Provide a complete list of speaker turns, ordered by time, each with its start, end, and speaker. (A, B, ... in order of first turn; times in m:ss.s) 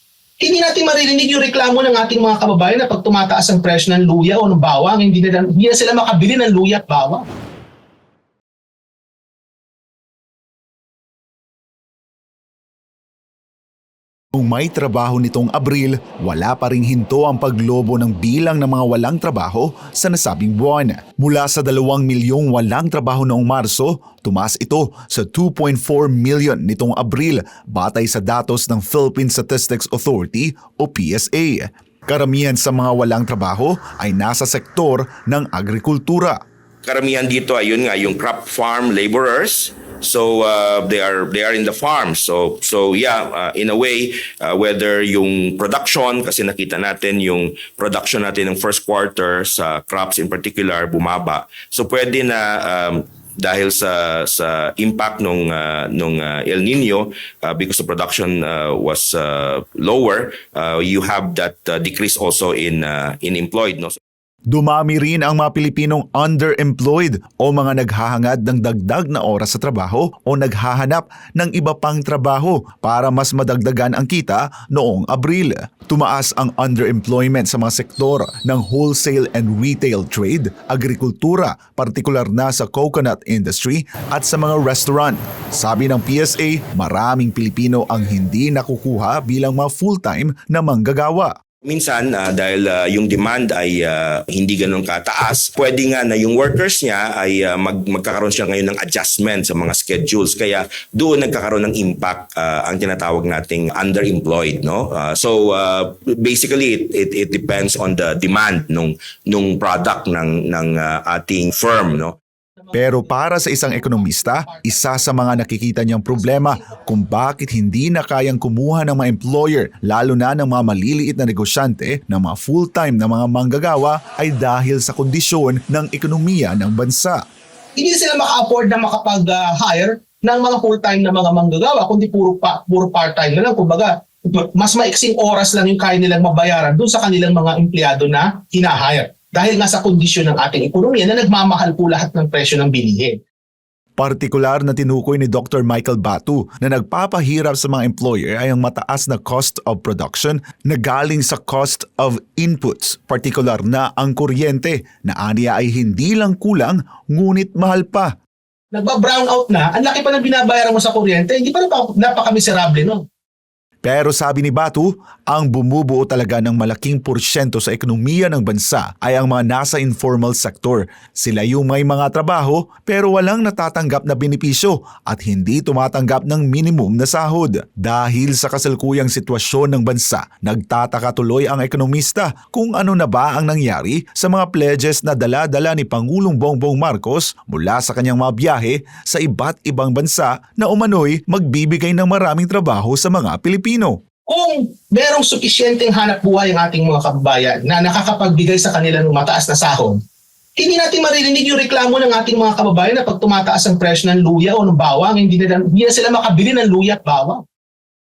0:00.4-0:07.3 A
0:14.4-0:36.4 B
0:36.8-1:04.0 C
1:04.5-1:31.3 B
1:31.6-1:52.2 C
1:52.7-2:07.2 B
1:53.8-1:55.4 A
1:56.2-1:56.8 A
2:07.8-2:23.2 A
2:24.0-2:38.1 B
2:38.7-2:43.0 A
2:43.8-3:14.0 B
3:14.3-3:20.0 A
3:20.6-3:27.4 A